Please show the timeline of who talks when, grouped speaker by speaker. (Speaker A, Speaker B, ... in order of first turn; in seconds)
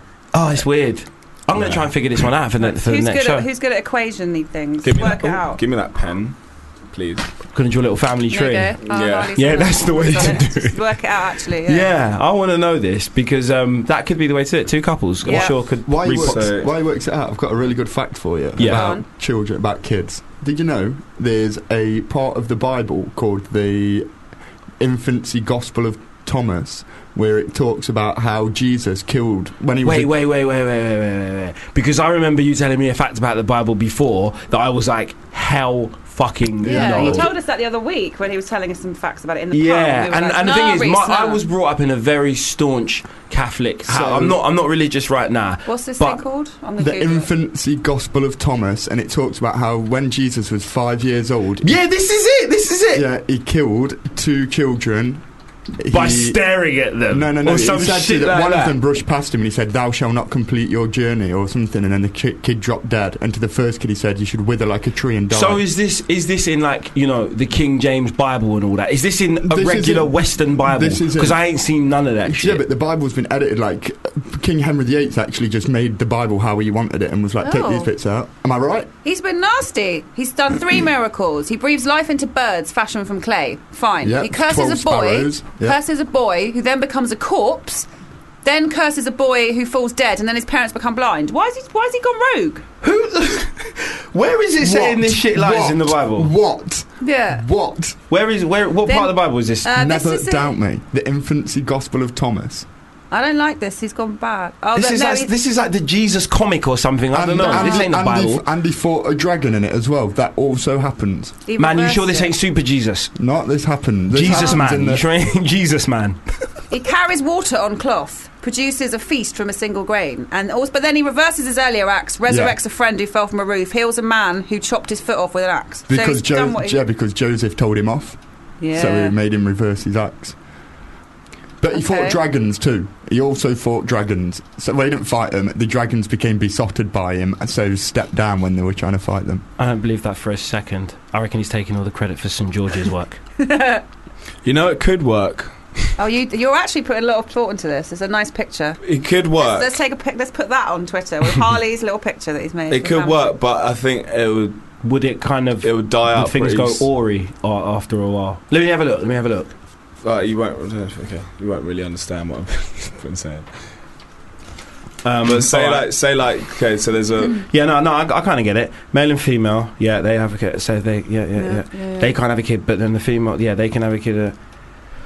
Speaker A: 0.3-3.5, 7.5-8.8, 9.3-11.0, 11.6-16.5, 18.6-18.9, 29.8-37.3, 39.5-46.2, 51.6-53.1, 55.9-58.8, 65.3-72.6, 92.8-96.3, 98.1-99.7, 104.8-108.4, 111.6-113.1, 114.1-116.2, 139.6-143.2, 154.8-159.5, 165.0-165.9, 167.5-174.3
Speaker B: 1.6-1.9, 4.8-7.3, 8.8-9.7, 16.1-16.7, 144.4-145.9, 148.8-149.7, 152.7-154.6, 155.6-156.9, 160.0-163.6, 165.2-167.5
Speaker C: 2.6-5.6, 8.3-11.9, 15.2-15.6, 18.6-19.0, 36.6-41.4, 45.7-47.3, 77.4-77.9, 79.0-87.9, 88.4-92.6, 97.0-97.5, 98.9-100.6, 103.1-105.3, 107.4-107.9, 111.5-112.3, 114.3-114.6, 116.7-126.8, 128.6-129.2, 131.7-132.2, 143.4-143.8, 146.0-148.8, 149.4-153.3, 171.4-172.1
Speaker D: 15.8-24.1, 24.8-30.1, 36.6-37.3, 43.9-44.4, 46.8-51.8, 52.9-55.2, 55.8-56.4, 57.1-65.6, 69.5-71.4, 72.2-78.9, 84.0-85.8, 94.6-98.0, 99.7-102.7, 107.1-111.4, 113.2-115.1, 122.3-122.6, 125.9-128.2, 128.7-130.4, 131.6-139.4